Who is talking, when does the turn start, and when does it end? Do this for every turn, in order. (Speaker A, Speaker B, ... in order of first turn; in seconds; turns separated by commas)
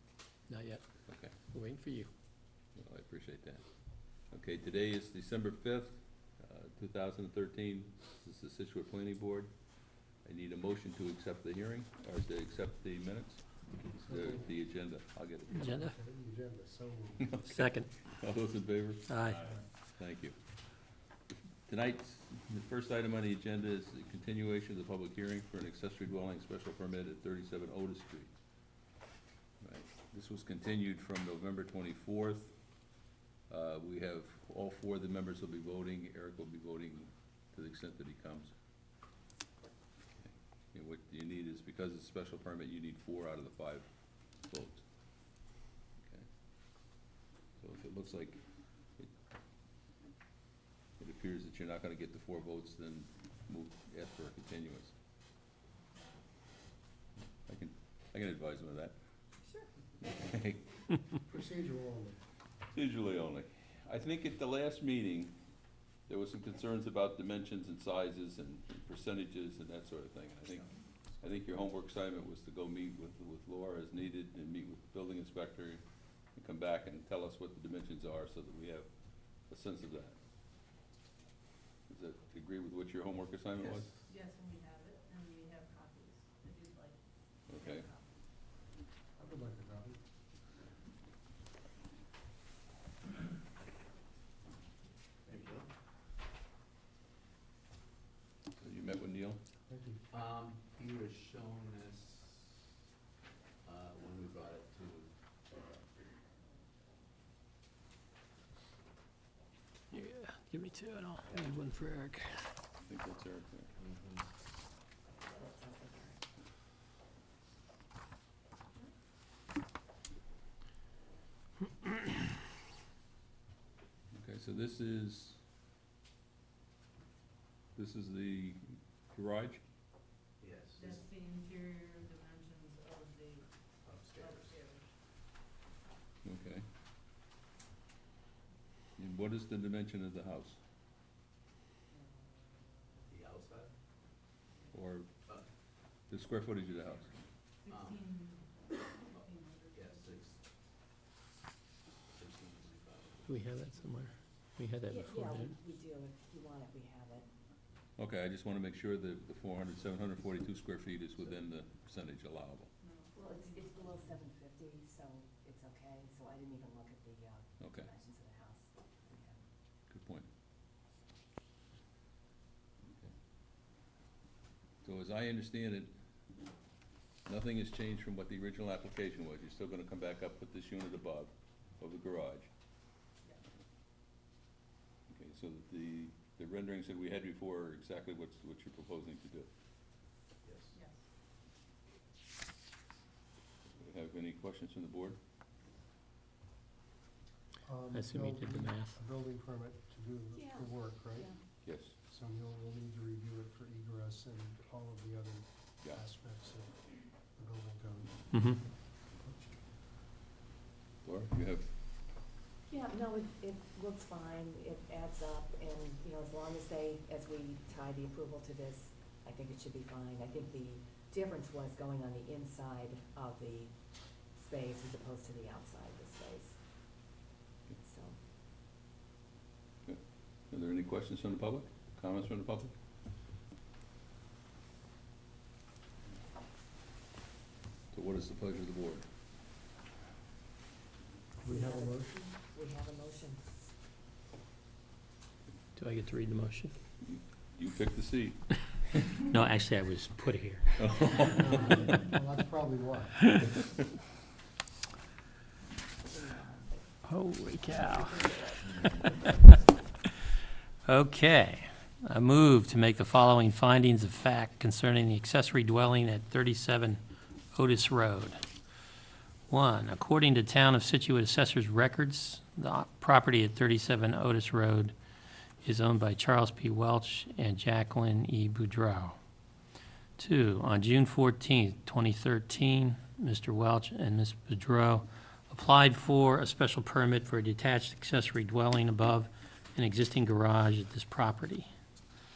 Speaker A: 0.5-0.8, Speaker B: 1.1-1.4, Speaker A: 1.5-2.1, Speaker B: 2.8-3.6, Speaker B: 4.3-9.5, Speaker B: 10.2-13.4, Speaker C: 14.0-14.6, Speaker B: 14.1-15.8, Speaker A: 15.6-15.9, Speaker C: 15.6-17.8, Speaker A: 17.4-17.9, Speaker B: 18.1-19.1, Speaker A: 19.1-19.5, Speaker B: 20.0-20.4, Speaker B: 21.7-28.3, Speaker B: 29.6-32.5, Speaker B: 33.5-38.5, Speaker B: 40.2-43.9, Speaker B: 44.4-44.8, Speaker B: 46.0-46.3, Speaker B: 47.6-48.4, Speaker B: 51.0-54.9, Speaker B: 57.5-59.0, Speaker D: 59.4-59.7, Speaker B: 60.0-60.7, Speaker C: 61.2-62.2, Speaker B: 62.7-65.3, Speaker B: 66.1-70.7, Speaker E: 70.5-71.7, Speaker B: 71.2-75.8, Speaker B: 76.3-78.9, Speaker B: 79.5-80.2, Speaker B: 81.9-83.9, Speaker F: 84.1-88.1, Speaker B: 87.5-87.9, Speaker C: 89.2-90.0, Speaker E: 95.3-95.7, Speaker B: 98.6-99.4, Speaker C: 99.7-100.0, Speaker E: 100.1-102.6, Speaker E: 103.6-105.1, Speaker A: 109.9-112.3, Speaker E: 111.3-111.6, Speaker B: 112.8-113.7, Speaker E: 113.8-114.3, Speaker D: 115.2-116.2, Speaker B: 124.1-125.4, Speaker B: 127.8-129.6, Speaker E: 130.4-131.1, Speaker F: 130.8-133.5, Speaker E: 133.8-134.6, Speaker F: 134.2-134.8, Speaker B: 136.2-136.7, Speaker B: 139.0-140.6, Speaker E: 143.1-143.7, Speaker B: 144.7-145.1, Speaker B: 146.1-147.1, Speaker F: 147.6-150.1, Speaker E: 147.7-148.2, Speaker E: 149.1-150.4, Speaker E: 152.1-153.4, Speaker A: 153.3-155.5, Speaker D: 154.9-157.3, Speaker B: 158.0-162.7, Speaker F: 162.8-164.0, Speaker D: 163.1-169.4, Speaker B: 167.6-167.9, Speaker B: 169.9-170.3, Speaker B: 174.8-175.9, Speaker B: 177.3-182.5, Speaker B: 185.1-189.5, Speaker E: 190.4-190.8, Speaker F: 190.7-191.0, Speaker B: 193.8-195.2, Speaker C: 197.6-201.3, Speaker A: 197.9-199.0, Speaker D: 200.3-201.4, Speaker B: 201.6-201.9, Speaker C: 202.0-206.8, Speaker C: 207.4-208.2, Speaker A: 208.3-208.6, Speaker C: 209.2-209.6, Speaker B: 211.0-211.7, Speaker D: 212.7-223.7, Speaker D: 224.3-226.6, Speaker D: 227.7-228.2, Speaker B: 229.9-232.7, Speaker B: 237.9-239.1, Speaker C: 241.4-242.2, Speaker D: 241.5-243.5, Speaker A: 245.8-246.7, Speaker B: 247.0-248.4, Speaker A: 249.3-250.8, Speaker B: 250.8-252.0, Speaker C: 251.2-253.3, Speaker D: 256.1-256.9, Speaker A: 257.1-258.2, Speaker D: 257.6-259.1, Speaker A: 260.9-267.0, Speaker A: 267.5-268.4, Speaker A: 269.5-274.9, Speaker A: 275.6-279.2, Speaker A: 280.2-291.7